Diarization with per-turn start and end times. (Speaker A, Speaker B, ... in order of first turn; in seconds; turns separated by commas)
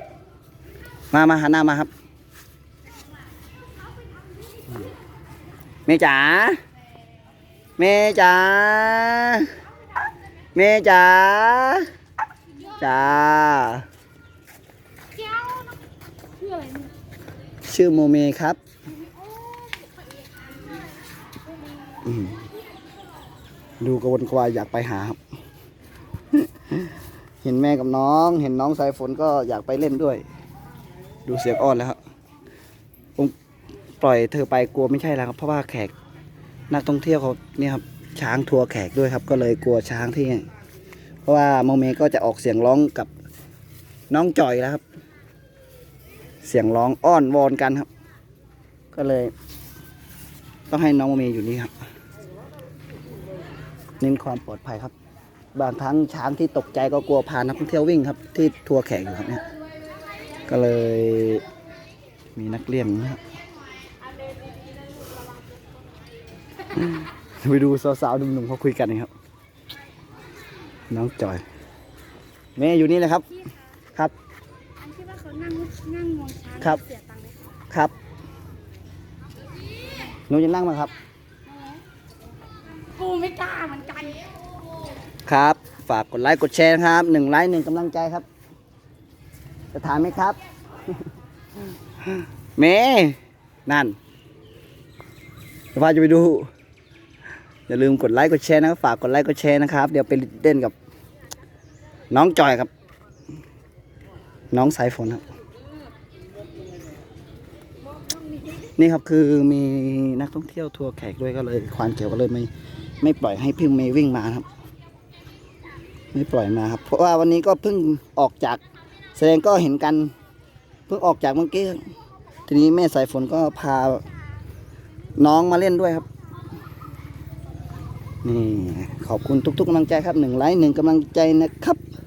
Speaker A: 1.1-1.9, Speaker A: 5.9-6.6, Speaker A: 7.8-9.5, Speaker A: 10.6-11.9, Speaker A: 12.8-13.9, Speaker B: 15.1-15.8, Speaker B: 16.4-16.9, Speaker A: 17.7-18.6, Speaker B: 18.9-20.5, Speaker A: 22.1-22.4, Speaker A: 23.8-25.2, Speaker A: 26.3-26.9, Speaker A: 27.4-30.2, Speaker A: 31.3-32.0, Speaker A: 34.0-35.9, Speaker A: 36.7-40.5, Speaker A: 41.3-43.1, Speaker A: 44.1-44.8, Speaker A: 46.4-47.9, Speaker A: 48.9-49.3, Speaker A: 50.7-51.7, Speaker A: 54.0-54.9, Speaker A: 55.5-59.4, Speaker A: 60.5-61.4, Speaker A: 62.4-63.2, Speaker B: 65.0-65.4, Speaker A: 66.8-69.1, Speaker A: 70.9-71.4, Speaker A: 72.6-73.3, Speaker B: 74.8-77.4, Speaker A: 76.6-76.8, Speaker A: 80.3-80.9, Speaker B: 81.5-81.8, Speaker B: 82.9-84.3, Speaker A: 85.3-88.3, Speaker A: 89.7-90.4, Speaker A: 92.6-94.0, Speaker A: 95.7-96.5, Speaker A: 97.7-100.7, Speaker A: 102.1-102.7, Speaker A: 104.5-105.2, Speaker B: 108.1-108.6, Speaker A: 108.8-112.5, Speaker A: 113.0-114.5, Speaker A: 116.1-118.6, Speaker A: 119.2-120.1, Speaker A: 120.9-121.9, Speaker A: 122.5-124.0, Speaker A: 125.2-126.1, Speaker A: 128.2-131.8